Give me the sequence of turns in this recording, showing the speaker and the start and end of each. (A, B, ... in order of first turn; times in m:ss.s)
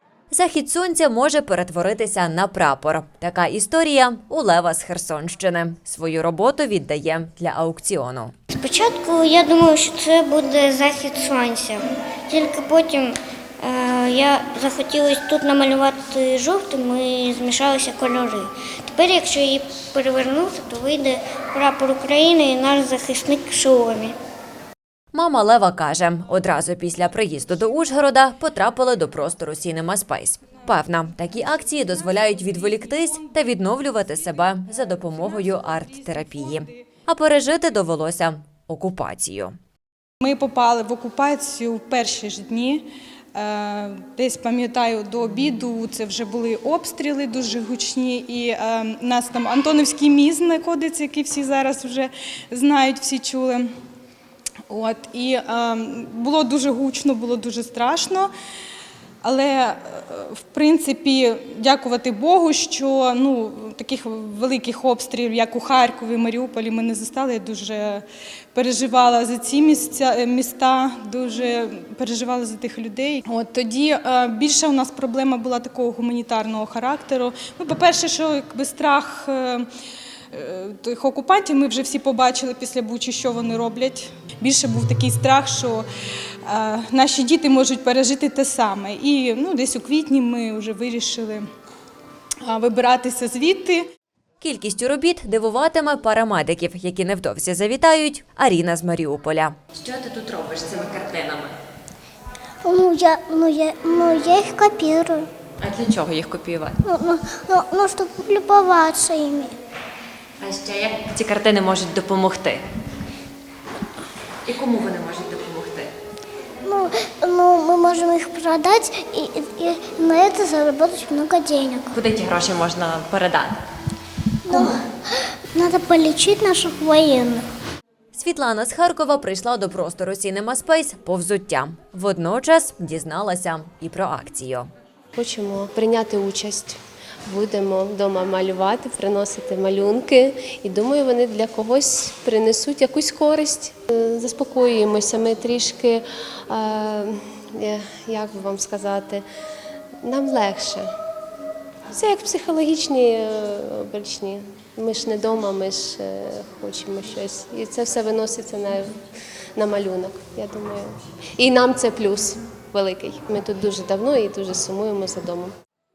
0:00.3-0:08.3 A
0:08.5-0:24.2 B
0:25.1-0:39.6 A
0:32.1-0:33.4 C
0:34.6-0:36.8 C
0:40.2-0:53.7 C
0:54.7-0:58.3 C
0:59.2-1:19.7 C
1:20.3-1:25.8 C
1:26.5-1:31.5 C
1:32.4-1:33.9 C
1:34.4-1:41.5 A
1:42.6-1:45.3 D
1:45.6-1:46.8 A
1:46.8-1:49.6 D
1:50.4-1:52.6 A
1:54.5-1:55.9 A
1:56.6-2:02.0 D
2:01.9-2:03.6 A
2:04.5-2:07.4 D
2:08.1-2:14.7 A
2:15.2-2:29.2 E
2:30.0-2:30.9 E
2:31.9-2:38.9 E
2:39.6-2:45.5 E